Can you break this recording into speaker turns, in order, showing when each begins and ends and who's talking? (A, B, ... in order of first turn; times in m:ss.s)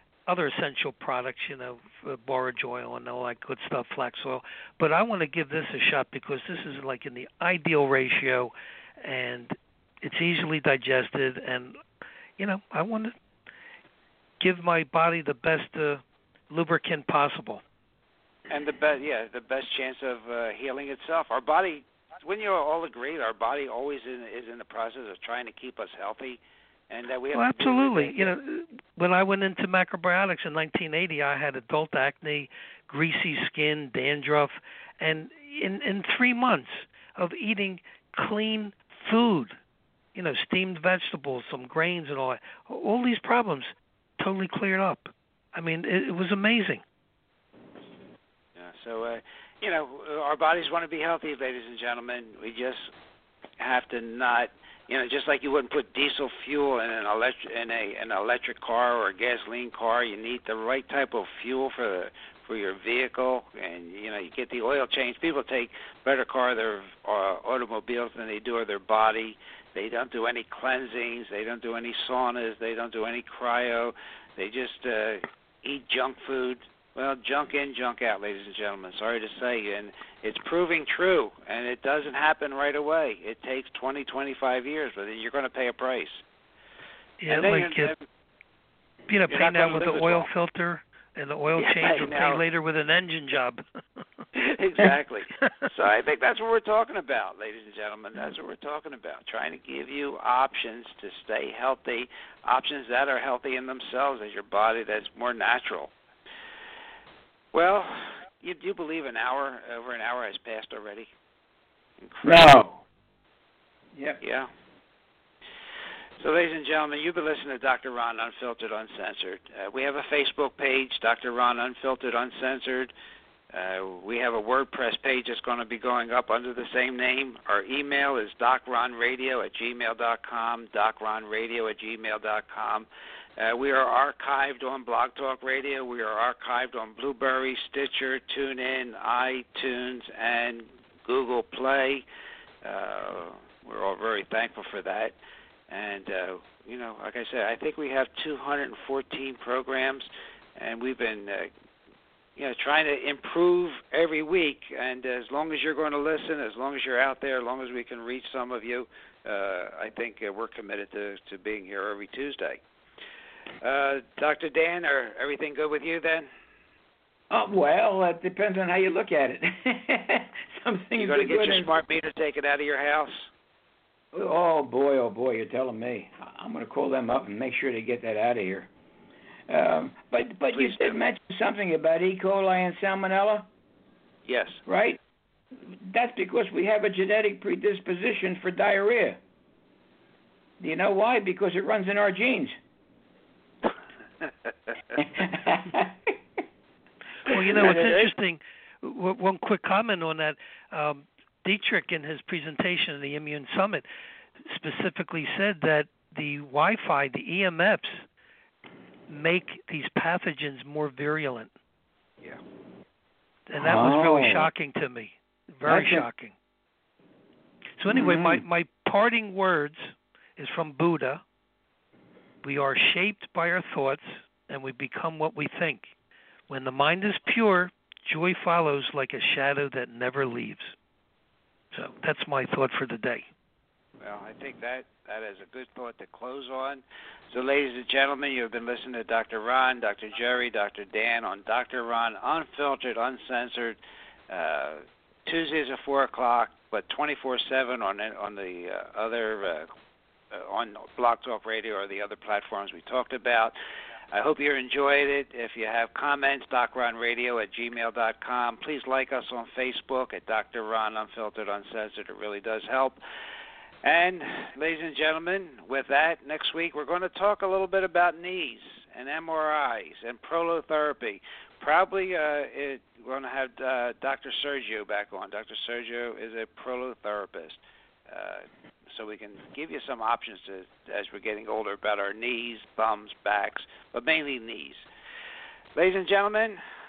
0:00.3-0:11.8 A
0:12.4-0:13.1 A
0:14.4-0:17.6 A
0:18.5-0:28.3 B
0:27.3-0:39.6 A
0:40.1-0:46.8 A
0:48.6-0:52.9 B
0:53.6-1:26.2 B
1:27.2-1:27.9 A
1:27.3-1:28.0 B
1:29.1-1:33.6 A
1:29.3-1:30.3 B
1:31.6-1:32.4 B
1:34.3-1:45.9 B
1:47.5-1:51.1 B
1:52.0-1:52.7 B
1:52.3-1:52.6 C
1:54.0-1:54.2 C
1:54.2-1:54.5 B
1:56.2-2:02.9 B
2:03.5-2:12.9 B
2:13.4-2:22.0 B
2:22.6-2:25.2 B
2:25.7-2:31.5 B
2:32.4-2:42.6 B
2:43.6-2:46.3 B
2:47.3-2:51.7 C
2:51.0-2:53.3 B
2:54.1-2:58.7 C
2:59.5-3:03.5 C
3:00.5-3:01.0 B
3:04.3-3:04.6 B
3:04.7-3:05.0 C
3:05.7-3:09.2 C
3:10.6-3:12.6 C
3:15.0-3:16.1 C
3:17.3-3:23.8 A
3:17.6-3:18.1 B
3:24.5-3:28.0 A
3:29.1-3:31.5 A
3:33.5-3:36.3 A
3:33.6-3:34.5 C
3:35.6-3:36.1 C
3:37.8-3:41.2 A
3:37.9-3:38.4 C
3:42.4-3:45.9 A
3:46.5-3:50.7 A
3:51.7-3:53.2 A
3:54.0-4:03.8 B
4:04.3-4:09.7 B
4:10.3-4:13.6 B
4:14.1-4:23.0 B
4:23.8-4:44.9 B
4:45.7-4:46.6 B